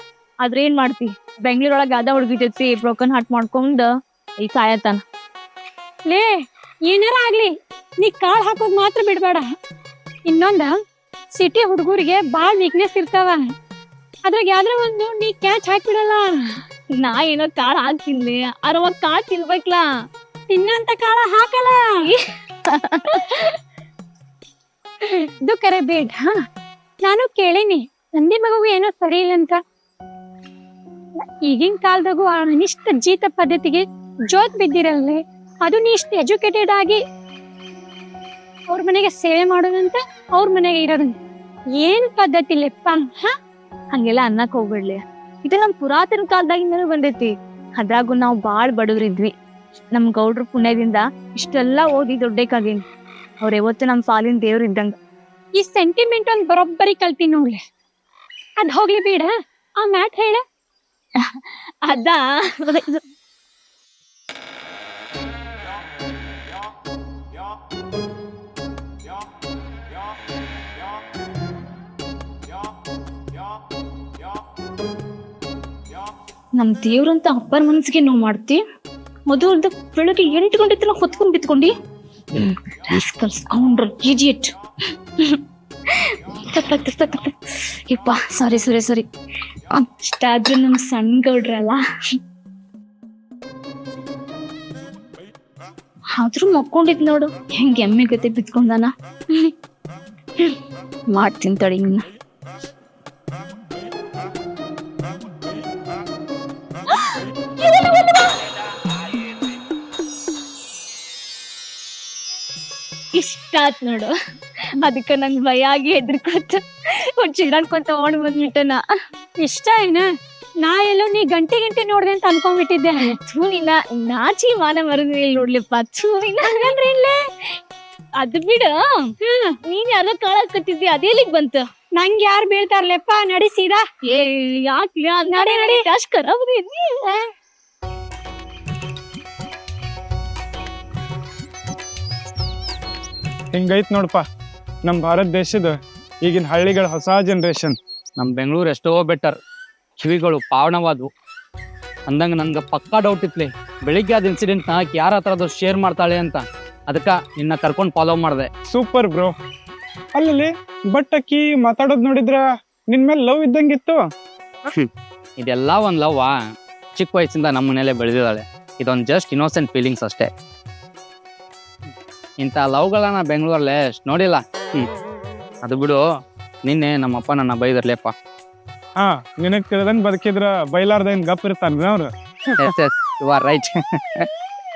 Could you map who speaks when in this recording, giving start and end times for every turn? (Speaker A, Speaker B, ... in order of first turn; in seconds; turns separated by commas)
Speaker A: 0.4-3.9, Speaker A: 4.4-5.0, Speaker B: 6.1-6.4, Speaker B: 6.9-7.5, Speaker B: 8.0-9.4, Speaker B: 10.3-10.7, Speaker B: 11.3-13.4, Speaker B: 14.3-16.6, Speaker A: 17.0-19.8, Speaker B: 20.5-22.0, Speaker A: 22.0-23.6, Speaker B: 25.4-26.3, Speaker B: 27.0-29.6, Speaker B: 31.4-37.0, Speaker B: 38.7-41.1, Speaker B: 41.8-43.3, Speaker A: 43.9-49.3, Speaker A: 49.9-52.8, Speaker A: 53.4-55.0, Speaker B: 55.6-57.6, Speaker B: 58.6-59.3, Speaker B: 59.8-60.4, Speaker A: 61.2-63.0, Speaker A: 76.5-78.6, Speaker A: 79.3-81.7, Speaker A: 82.3-84.5, Speaker A: 85.2-89.0, Speaker A: 89.7-91.8, Speaker A: 96.1-99.5, Speaker A: 101.1-102.0, Speaker A: 107.6-108.0, Speaker A: 113.2-114.1, Speaker A: 114.8-118.8, Speaker B: 119.4-120.1, Speaker B: 120.6-123.2, Speaker A: 123.0-126.8, Speaker B: 126.4-127.1, Speaker A: 128.2-129.1, Speaker B: 129.2-129.6, Speaker A: 129.7-131.7, Speaker B: 132.0-133.8, Speaker A: 134.1-137.0, Speaker B: 135.3-135.8, Speaker C: 143.5-144.2, Speaker C: 144.8-147.8, Speaker D: 148.2-149.4, Speaker D: 150.0-151.1, Speaker D: 152.1-158.5, Speaker C: 158.7-159.3, Speaker C: 160.1-164.0, Speaker D: 165.4-166.3, Speaker D: 166.9-170.3, Speaker D: 172.4-174.9, Speaker D: 175.6-176.0, Speaker D: 176.6-178.1, Speaker C: 179.0-182.1, Speaker D: 182.6-184.3